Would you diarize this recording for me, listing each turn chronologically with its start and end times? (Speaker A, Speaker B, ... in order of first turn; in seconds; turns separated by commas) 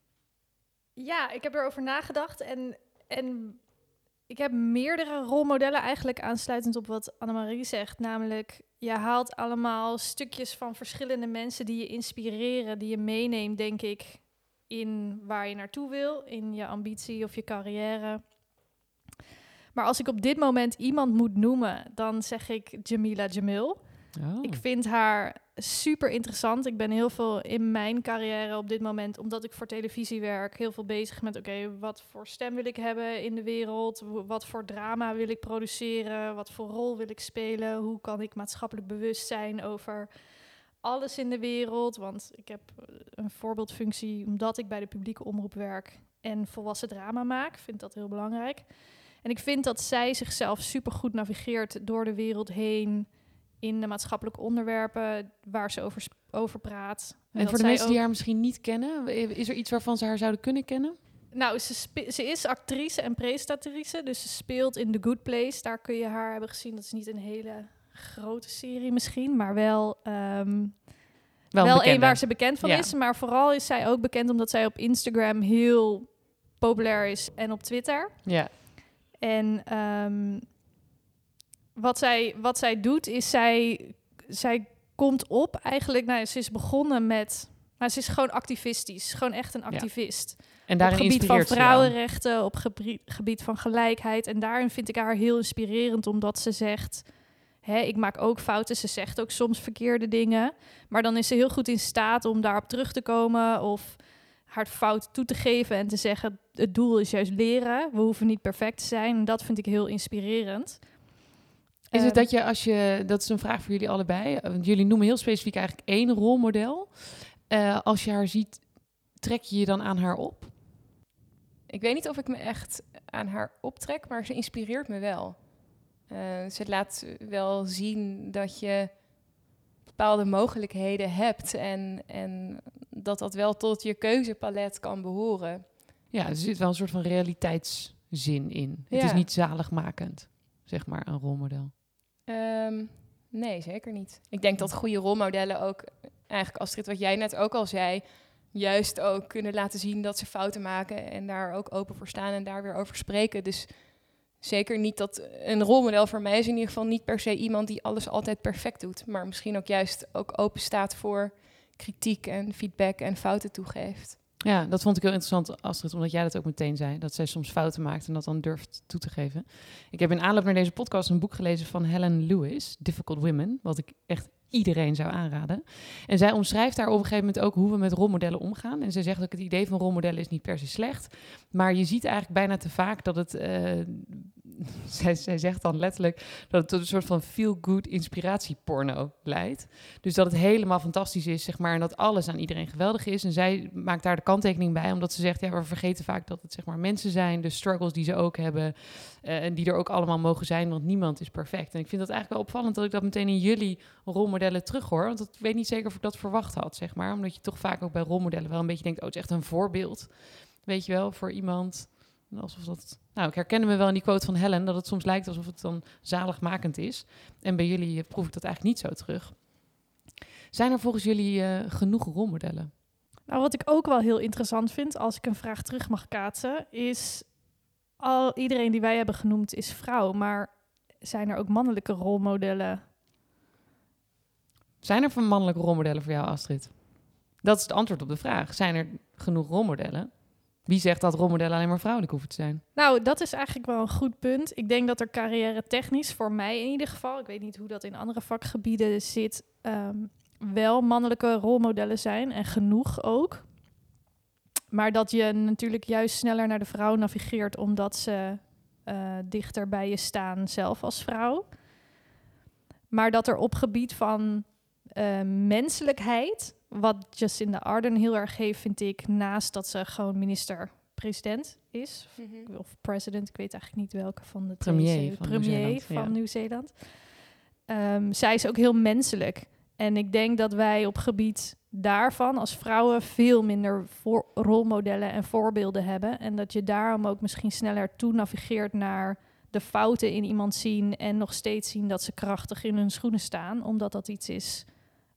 Speaker A: 1.0-3.7, Speaker A: 4.3-18.4, Speaker A: 19.7-40.2, Speaker B: 24.1-24.6, Speaker A: 40.8-58.0, Speaker B: 57.3-61.0, Speaker A: 61.3-80.5, Speaker B: 71.5-72.9, Speaker B: 78.2-78.5, Speaker A: 81.8-111.2, Speaker B: 89.7-92.0, Speaker A: 111.9-112.3, Speaker B: 111.9-120.5, Speaker C: 121.7-135.7, Speaker B: 136.1-141.7, Speaker C: 138.9-139.2, Speaker C: 142.3-164.2, Speaker B: 164.4-219.8, Speaker B: 220.5-222.7, Speaker A: 223.3-232.9, Speaker B: 234.8-242.6, Speaker A: 242.8-253.6, Speaker A: 254.7-261.7, Speaker A: 262.9-294.9, Speaker C: 272.2-272.5, Speaker B: 274.6-276.2